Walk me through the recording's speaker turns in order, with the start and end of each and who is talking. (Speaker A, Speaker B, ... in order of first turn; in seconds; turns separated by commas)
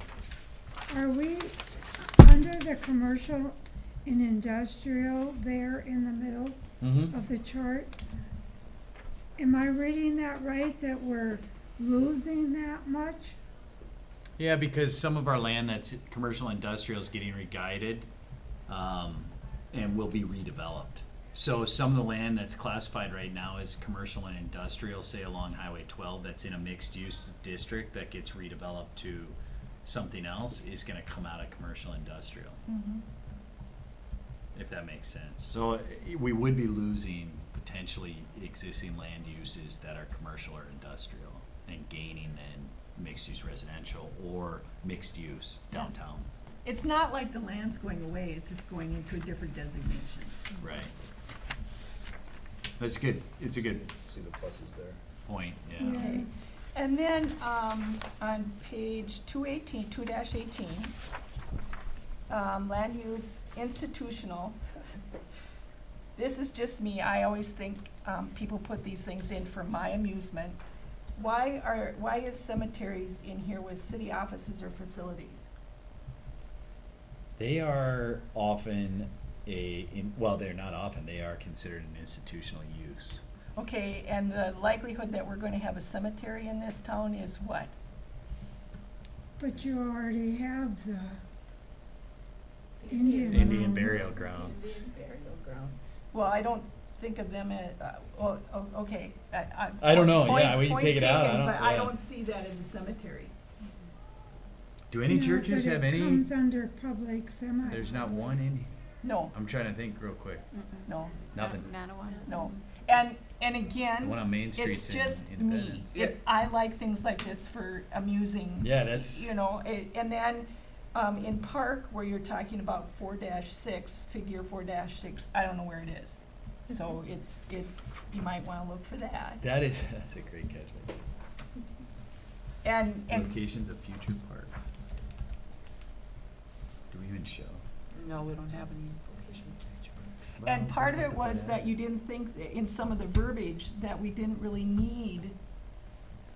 Speaker A: 0.9-8.0, Speaker B: 6.8-7.2, Speaker A: 9.4-13.4, Speaker B: 14.4-18.1, Speaker B: 18.7-32.6, Speaker C: 32.7-33.0, Speaker B: 34.5-46.3, Speaker C: 46.6-50.6, Speaker B: 50.6-50.9, Speaker B: 52.8-56.1, Speaker A: 55.8-56.3, Speaker C: 55.9-61.0, Speaker C: 62.3-65.0, Speaker C: 66.2-70.6, Speaker C: 71.2-75.5, Speaker B: 77.4-83.2, Speaker C: 83.5-87.7, Speaker A: 89.4-91.2, Speaker A: 92.9-94.1, Speaker C: 93.1-94.0, Speaker B: 93.3-94.6, Speaker C: 94.9-95.2, Speaker C: 96.1-103.3, Speaker B: 99.8-102.0, Speaker B: 104.9-106.3, Speaker A: 105.0-108.0, Speaker B: 107.6-108.7, Speaker C: 109.0-109.3, Speaker B: 109.3-110.5, Speaker D: 110.5-112.6, Speaker C: 110.9-111.2, Speaker B: 111.3-111.9, Speaker C: 112.2-129.4, Speaker B: 114.0-115.9, Speaker E: 115.9-116.2, Speaker B: 118.6-119.4, Speaker B: 129.4-130.9, Speaker C: 132.6-133.3, Speaker B: 133.1-134.7, Speaker B: 136.9-137.6, Speaker E: 137.9-140.2, Speaker B: 140.3-141.7, Speaker C: 140.4-145.3